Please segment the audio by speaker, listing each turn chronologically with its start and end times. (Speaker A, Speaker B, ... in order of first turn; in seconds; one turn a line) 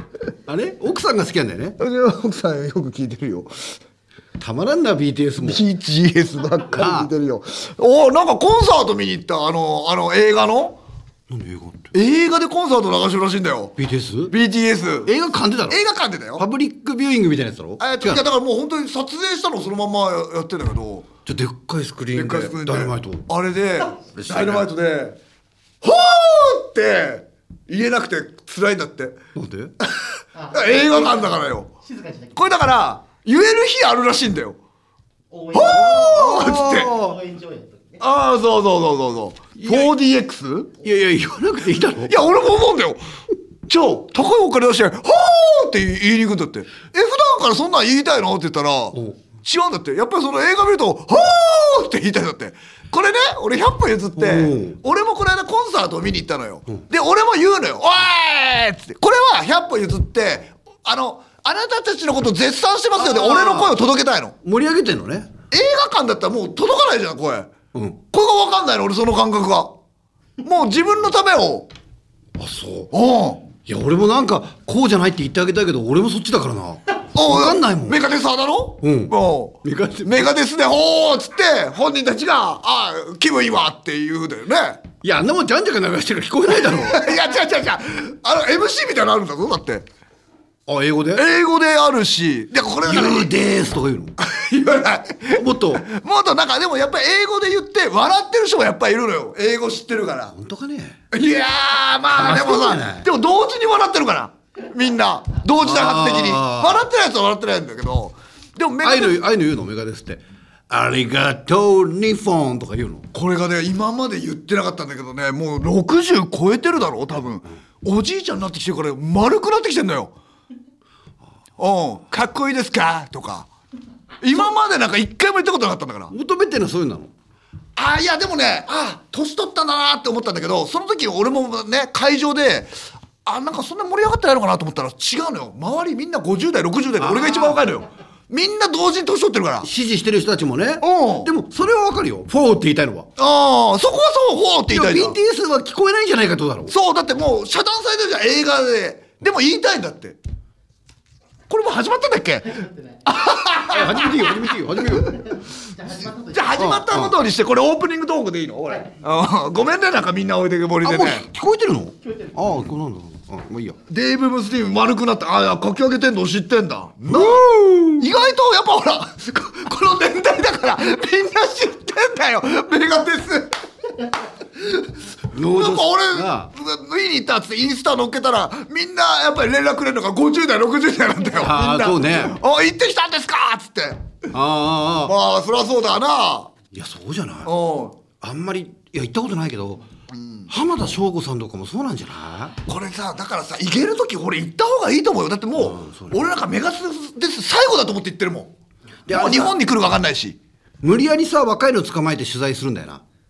Speaker A: 0.5-1.8
Speaker B: 1.8-3.7
Speaker A: 4.4-5.6
Speaker B: 5.4-10.8
Speaker A: 6.7-7.1
Speaker A: 11.3-11.9
Speaker B: 11.9-13.8
Speaker A: 13.8-14.3
Speaker B: 14.3-15.1
Speaker A: 15.1-15.8
Speaker B: 15.7-16.5
Speaker A: 16.4-18.2
Speaker B: 17.8-21.1
Speaker A: 21.3-23.3
Speaker B: 22.1-25.2
Speaker A: 24.1-24.7
Speaker B: 25.8-29.2
Speaker A: 29.4-29.7
Speaker B: 29.8-31.7
Speaker C: 30.3-32.7
Speaker B: 32.4-34.6
Speaker C: 35.3-38.0
Speaker B: 35.5-36.9
Speaker A: 35.6-37.2
Speaker B: 38.0-40.7
Speaker A: 39.6-39.9
Speaker A: 40.8-42.2
Speaker B: 42.0-43.0
Speaker B: 43.7-64.3
Speaker A: 54.2-54.8
Speaker A: 63.0-63.8
Speaker A: 64.4-65.3
Speaker B: 65.5-67.5
Speaker A: 67.7-68.0
Speaker B: 68.1-69.8
Speaker B: 70.4-71.7
Speaker A: 72.4-72.9
Speaker B: 72.9-73.5
Speaker A: 73.6-78.0
Speaker B: 77.1-84.8
Speaker A: 78.8-80.3
Speaker A: 85.0-87.0
Speaker B: 86.5-89.9
Speaker A: 90.7-91.2
Speaker B: 91.1-93.3
Speaker A: 92.8-94.2
Speaker B: 94.2-100.3
Speaker A: 95.3-95.8
Speaker A: 100.3-101.0
Speaker B: 101.1-109.2
Speaker A: 102.1-103.1
Speaker A: 105.6-106.8
Speaker A: 108.8-113.1
Speaker B: 113.1-120.1
Speaker B: 121.6-123.5
Speaker B: 124.2-126.1
Speaker A: 126.1-127.1
Speaker B: 127.8-139.7
Speaker A: 137.0-137.6
Speaker A: 139.6-143.1
Speaker B: 140.8-141.3
Speaker B: 143.2-145.2
Speaker A: 144.7-146.7
Speaker B: 146.7-150.2
Speaker B: 151.5-155.3
Speaker C: 152.4-153.1
Speaker A: 153.5-155.2
Speaker C: 155.1-156.7
Speaker B: 156.3-161.3
Speaker A: 156.6-157.1
Speaker A: 160.8-163.8
Speaker C: 162.0-162.7
Speaker B: 163.9-173.6
Speaker A: 167.1-168.1
Speaker B: 174.6-184.3
Speaker A: 175.3-176.5
Speaker A: 181.4-182.4
Speaker A: 184.3-185.1
Speaker B: 185.0-186.5
Speaker A: 186.7-187.5
Speaker B: 187.4-188.0
Speaker A: 188.2-189.9
Speaker B: 190.1-190.5
Speaker A: 190.5-192.6
Speaker B: 192.7-198.6
Speaker A: 195.6-196.2
Speaker A: 199.1-199.6
Speaker B: 199.1-200.4
Speaker A: 200.8-203.0